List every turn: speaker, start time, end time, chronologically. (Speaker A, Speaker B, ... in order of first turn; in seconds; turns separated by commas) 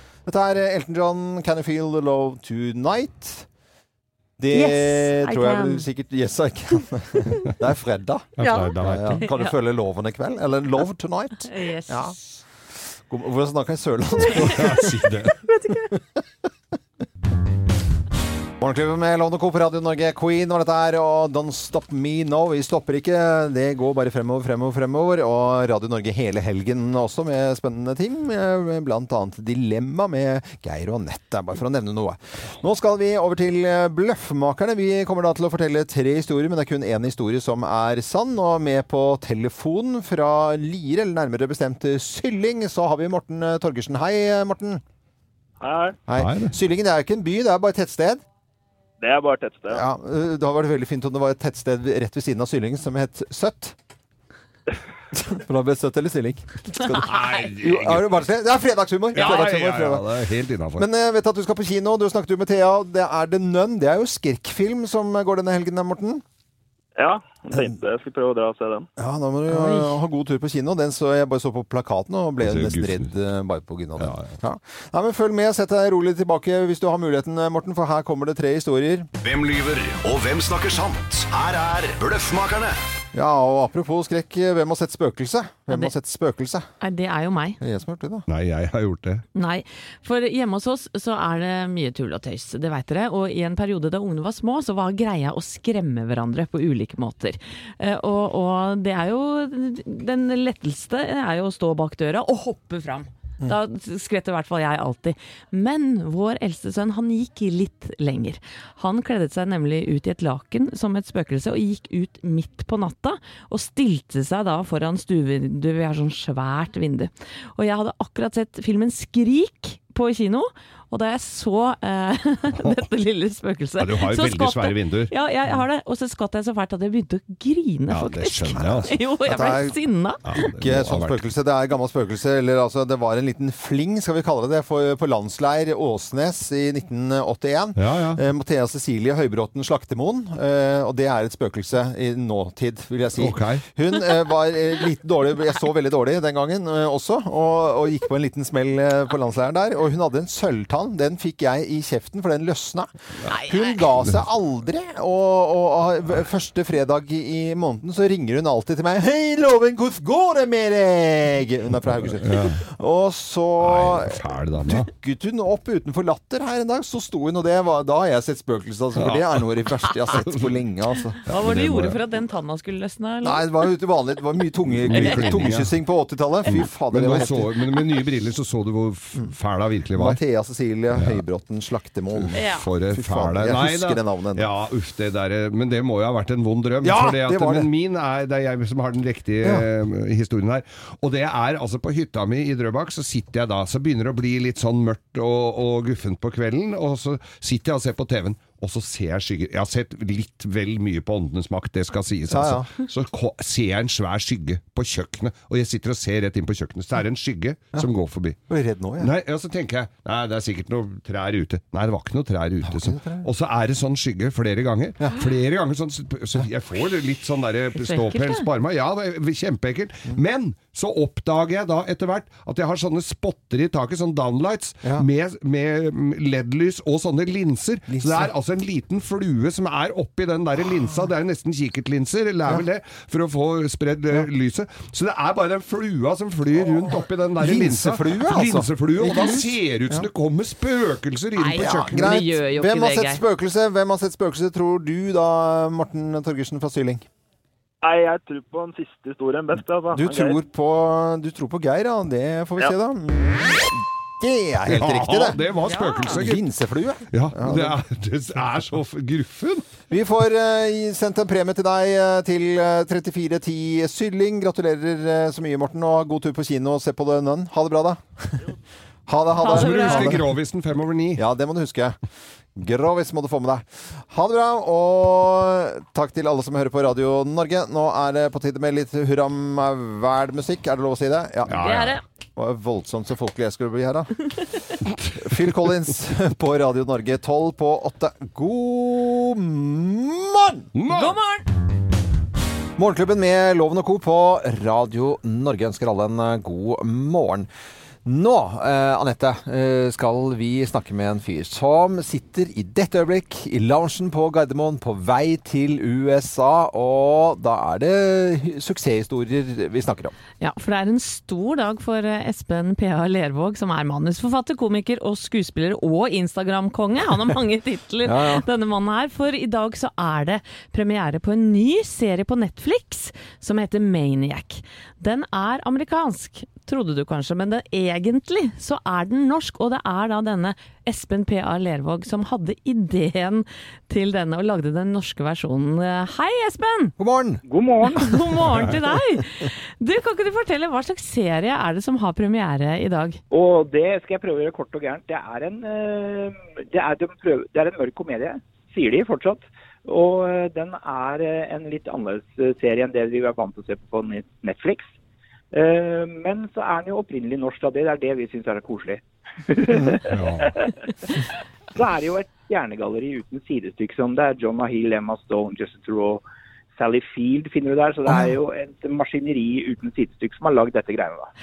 Speaker A: 0.3-3.5, Speaker A: 4.4-12.2, Speaker B: 4.5-5.9, Speaker C: 8.4-9.2, Speaker B: 8.4-9.6, Speaker B: 11.4-12.2, Speaker A: 13.1-14.9, Speaker C: 14.3-15.3, Speaker A: 18.6-44.8, Speaker D: 45.6-46.0, Speaker A: 46.1-48.2, Speaker C: 46.2-46.5, Speaker D: 49.0-49.8, Speaker A: 49.7-53.8, Speaker A: 55.1-57.1, Speaker C: 56.8-58.2, Speaker B: 57.1-57.5, Speaker A: 57.6-60.0, Speaker C: 59.1-60.9, Speaker A: 60.8-66.2, Speaker D: 67.0-68.9, Speaker A: 69.0-79.1, Speaker B: 69.5-70.0, Speaker C: 72.4-73.1, Speaker C: 74.0-74.3, Speaker E: 79.2-82.8, Speaker A: 83.1-86.7, Speaker B: 85.7-85.9, Speaker B: 86.8-87.6, Speaker A: 87.6-88.3, Speaker C: 88.3-89.2, Speaker B: 89.3-130.4, Speaker C: 123.8-125.1, Speaker C: 127.9-129.0, Speaker A: 129.3-129.8, Speaker C: 130.3-131.2, Speaker A: 130.6-171.2, Speaker C: 137.8-138.2, Speaker C: 143.2-143.6, Speaker B: 153.3-153.9, Speaker C: 162.1-162.6, Speaker C: 163.6-164.9, Speaker C: 169.0-169.5, Speaker C: 170.1-170.5, Speaker C: 171.3-172.0, Speaker B: 171.3-173.5, Speaker A: 173.2-177.5, Speaker C: 174.8-175.7, Speaker B: 174.9-175.5, Speaker C: 176.5-180.2, Speaker A: 180.0-184.5, Speaker C: 180.9-181.2, Speaker C: 182.2-208.4, Speaker B: 182.3-182.7, Speaker A: 186.8-187.7, Speaker A: 202.3-202.7, Speaker A: 208.5-209.1, Speaker C: 209.0-242.3, Speaker A: 212.7-213.3, Speaker B: 217.8-218.5, Speaker A: 227.9-228.3, Speaker A: 237.4-240.1, Speaker B: 239.1-239.4, Speaker B: 241.3-243.2, Speaker A: 241.6-247.0, Speaker D: 247.8-250.4, Speaker A: 249.9-255.4, Speaker C: 254.7-256.5, Speaker B: 255.5-256.3, Speaker A: 256.1-257.8, Speaker C: 257.1-259.7, Speaker A: 259.9-268.4, Speaker A: 269.1-270.3, Speaker B: 269.4-270.2, Speaker C: 269.4-271.2, Speaker A: 271.2-271.9, Speaker A: 272.6-281.7, Speaker C: 281.5-282.0, Speaker B: 281.5-282.0, Speaker A: 282.4-284.1, Speaker A: 285.1-290.7, Speaker C: 290.8-291.2, Speaker B: 290.9-291.5, Speaker A: 292.8-297.5, Speaker A: 298.1-310.1, Speaker B: 310.4-336.9, Speaker A: 318.0-318.4, Speaker A: 337.0-337.4, Speaker F: 337.5-338.1, Speaker B: 337.9-343.2, Speaker A: 338.0-338.7, Speaker F: 343.3-354.9, Speaker F: 355.5-366.2, Speaker C: 360.1-360.5, Speaker F: 366.8-371.3